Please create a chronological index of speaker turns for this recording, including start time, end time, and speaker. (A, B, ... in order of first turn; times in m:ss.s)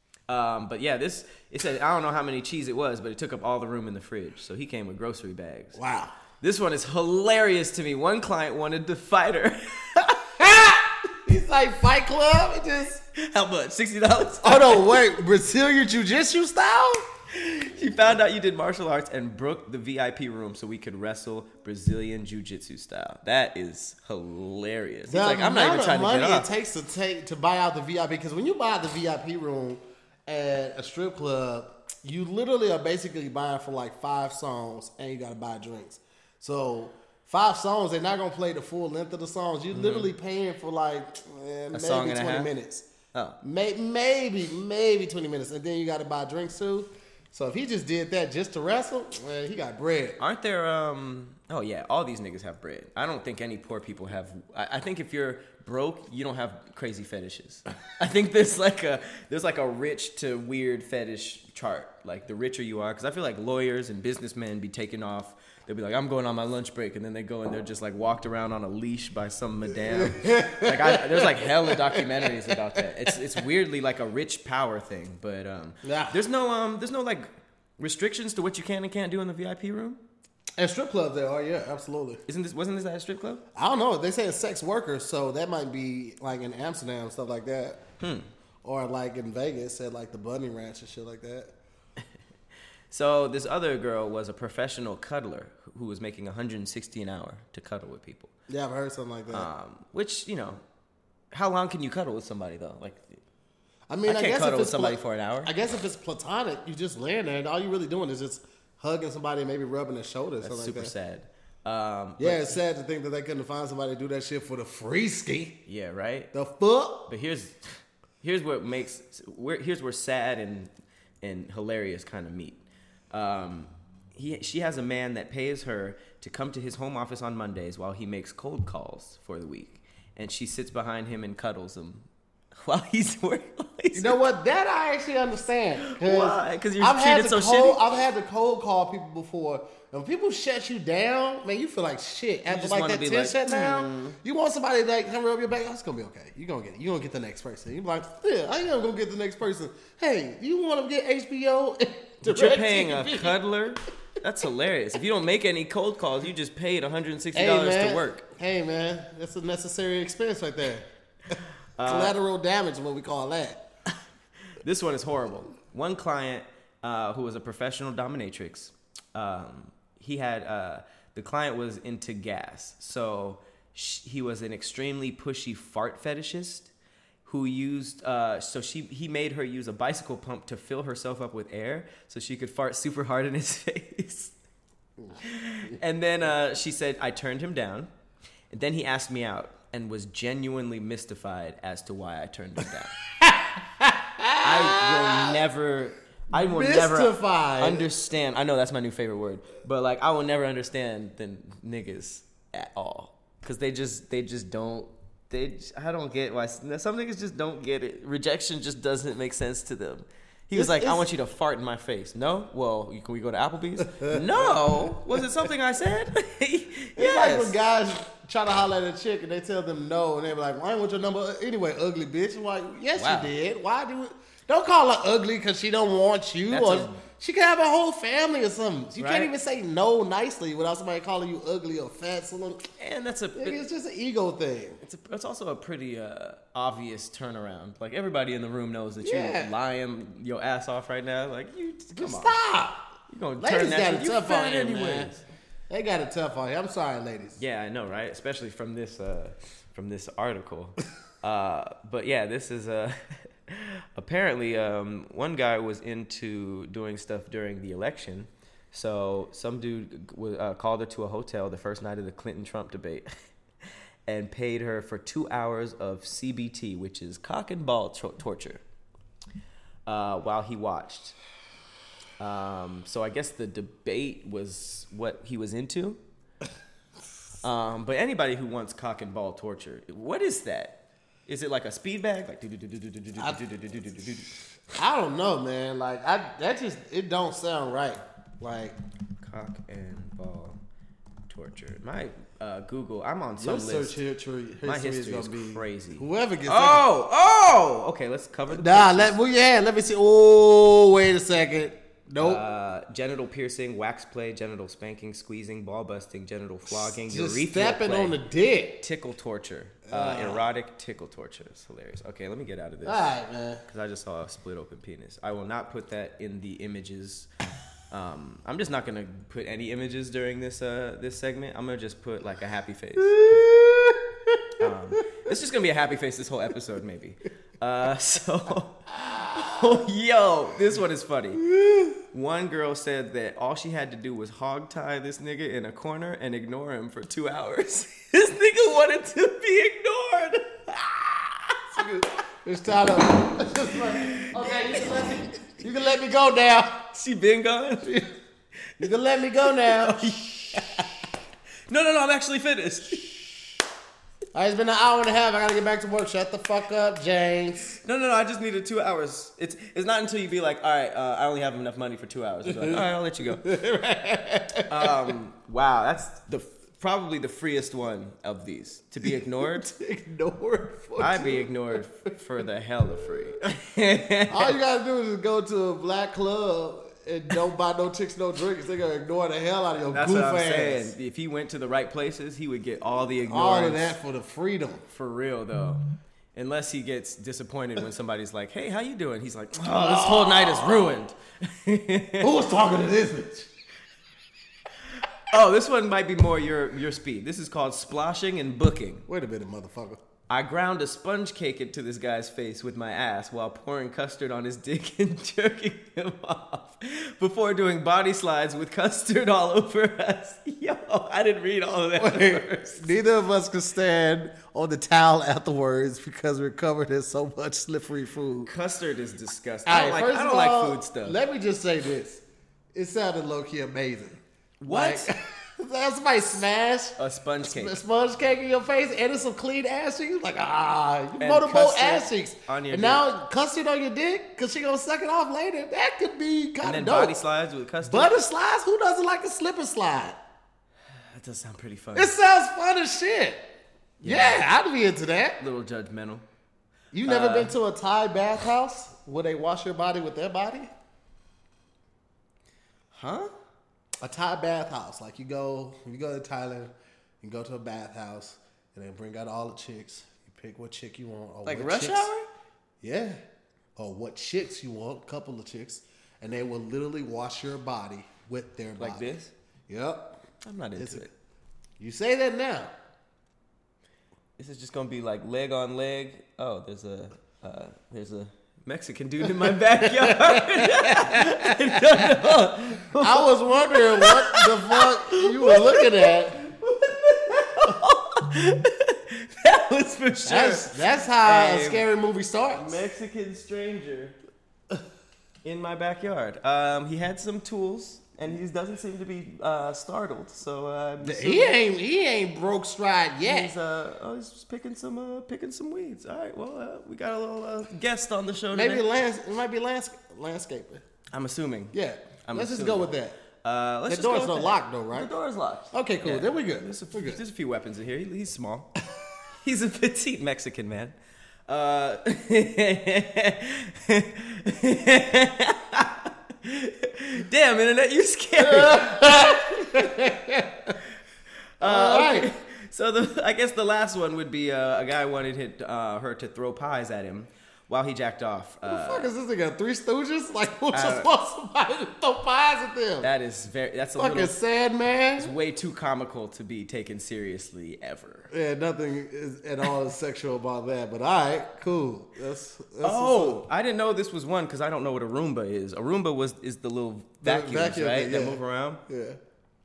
0:00.3-0:05.8 A
0:05.8-0:06.1 B
0:06.4-0:10.4 A
0:10.4-0:13.0 B
0:13.1-0:15.0 A
0:14.4-0:17.1 B
0:17.3-0:26.5 A
0:25.1-0:42.9 B
0:39.7-0:40.1 A
0:41.7-0:42.5 A
0:43.1-0:43.4 A
0:43.4-0:50.2 B
0:50.2-1:17.3 A
1:09.9-1:12.5 B
1:15.8-1:16.2 B
1:17.8-1:20.0 A
1:20.6-1:22.2 B
1:22.3-1:23.4 A
1:23.6-1:27.8 B
1:28.0-1:28.3 A
1:28.6-1:31.5 B
1:32.9-1:38.3 A
1:38.5-1:39.5 B
1:39.3-1:40.6 A
1:41.3-1:43.2 A
1:43.9-1:50.9 B
1:44.1-1:45.5 A
1:50.4-1:52.6 A
1:52.2-1:55.6 B
1:55.7-1:56.3 A
1:56.3-1:57.1 B
1:57.1-1:57.6 A
1:58.2-2:00.7 A
2:01.2-2:14.2 A
2:13.9-2:33.4 B
2:15.8-2:17.9 A
2:22.5-2:24.2 A
2:32.2-2:38.2 A
2:37.3-2:43.6 B
2:41.8-2:42.2 A
2:44.6-2:56.7 A
2:57.2-3:04.4 A
3:05.0-3:05.7 B
3:05.2-3:07.9 A
3:08.5-3:12.9 A
3:13.2-3:15.4 B
3:14.4-3:37.6 A
3:16.3-3:17.9 B
3:30.5-3:31.1 B
3:33.9-3:35.0 B
3:37.0-3:52.7 B
3:43.0-3:43.3 A
3:46.5-3:47.0 A
3:49.0-3:49.3 A
3:52.8-3:53.6 A
3:53.4-3:54.8 B
3:54.8-4:02.3 A
3:59.0-3:59.5 B
4:02.0-4:02.9 B
4:03.1-4:05.2 A
4:03.4-4:05.1 B
4:05.7-4:07.4 B
4:07.4-4:23.1 A
4:24.1-4:28.6 A
4:29.9-4:31.2 A
4:32.2-4:36.0 A
4:37.4-4:44.3 A
4:44.8-4:48.8 B
4:49.2-4:50.6 A
4:51.3-4:54.0 A
4:53.4-4:56.8 B
4:54.6-4:59.2 A
4:58.5-5:02.4 B
5:02.2-5:08.2 A
5:06.8-5:08.8 B
5:08.8-5:13.1 A
5:09.9-5:10.5 B
5:12.8-5:13.6 B
5:13.7-5:17.3 A
5:17.9-5:23.2 A
5:23.1-5:24.4 B
5:24.6-5:31.5 A
5:31.6-5:31.9 B
5:32.0-5:41.9 A
5:41.7-5:46.9 B
5:43.7-5:45.2 A
5:46.9-5:48.0 A
5:47.8-5:48.1 B
5:48.8-5:50.2 B
5:49.4-5:51.0 A
5:51.7-5:53.2 A
5:54.3-5:57.8 B
5:57.8-6:03.4 A
6:02.5-6:02.8 B
6:03.4-6:05.2 B
6:04.7-6:09.7 A
6:09.0-6:11.8 B
6:11.0-6:14.6 A
6:14.3-6:20.9 B
6:19.9-6:24.0 A
6:23.2-6:24.9 B
6:24.9-6:32.5 A
6:29.7-6:31.0 B
6:32.2-6:33.5 B
6:35.3-6:39.1 A
6:39.1-6:40.0 B
6:40.3-6:52.9 A
6:52.0-6:58.5 B
6:58.5-7:01.2 A
6:59.7-7:02.2 B
7:02.7-7:17.2 B
7:04.6-7:05.1 A
7:07.0-7:07.8 A
7:11.2-7:13.0 A
7:16.6-7:18.1 A
7:17.8-7:20.2 B
7:21.0-7:22.1 A
7:22.0-7:23.4 B
7:24.0-7:24.4 A
7:24.0-7:25.4 B
7:25.4-7:26.2 A
7:26.9-7:30.7 B
7:27.0-7:27.6 A
7:32.9-7:33.3 A
7:34.0-7:42.1 B
7:41.5-7:42.3 A
7:42.8-7:43.2 B
7:43.8-7:49.1 B
7:48.8-7:49.3 A
7:49.7-7:50.2 B
7:50.4-7:51.1 A
7:50.8-7:51.1 B
7:51.8-7:52.7 B
7:54.4-8:11.9 A
7:59.8-8:02.2 B
8:03.0-8:06.4 B
8:10.2-8:12.8 B
8:12.5-8:14.2 A
8:15.4-8:21.6 A
8:21.0-8:23.5 B
8:23.2-8:28.9 A
8:28.5-8:30.8 B
8:31.1-8:31.7 A
8:31.7-8:33.2 B
8:32.3-8:32.9 A
8:33.4-8:38.7 A
8:33.9-8:35.1 B
8:35.7-8:37.2 B
8:39.4-8:41.0 A
8:41.5-8:49.9 A
8:48.4-8:50.8 B
8:51.6-8:59.1 A
8:51.6-8:52.3 B
8:58.7-9:03.1 B
9:00.7-9:01.1 A
9:03.0-9:04.4 A
9:04.0-9:05.3 B
9:05.2-9:08.3 A
9:08.3-9:13.4 B
9:12.8-9:18.8 A
9:17.2-9:19.2 B